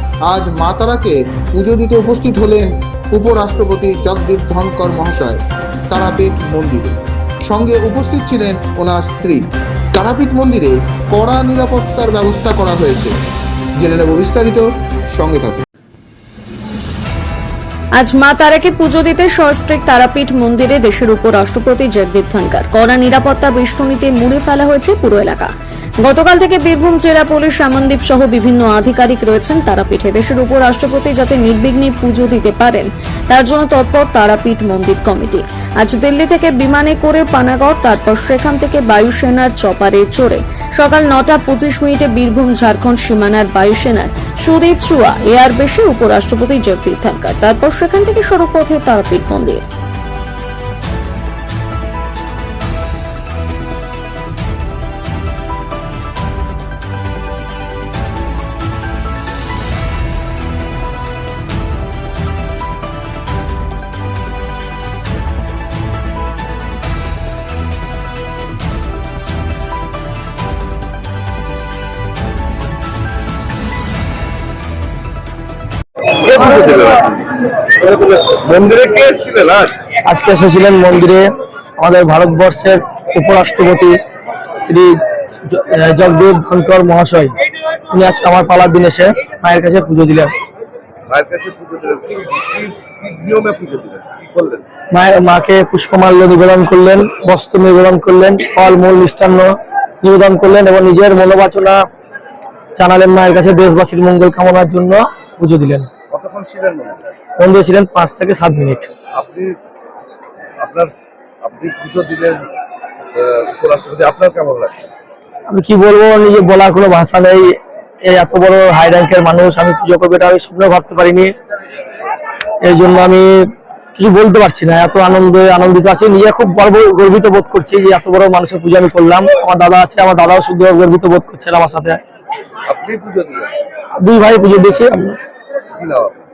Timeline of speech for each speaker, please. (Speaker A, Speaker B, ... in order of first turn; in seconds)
Speaker A: 0.2-13.1, 13.8-15.6
Speaker B: 18.0-25.5, 26.0-49.6
Speaker C: 76.1-79.8, 91.1-94.6, 106.1-107.0, 109.1-109.6, 110.6-112.5, 113.1-114.9, 132.7-133.5, 135.7-136.2
Speaker D: 80.0-84.0, 84.6-87.3, 87.9-90.3, 94.9-101.8, 102.8-105.9, 107.4-108.9, 115.5-121.3, 122.6-123.3, 124.0-132.0, 134.0-135.2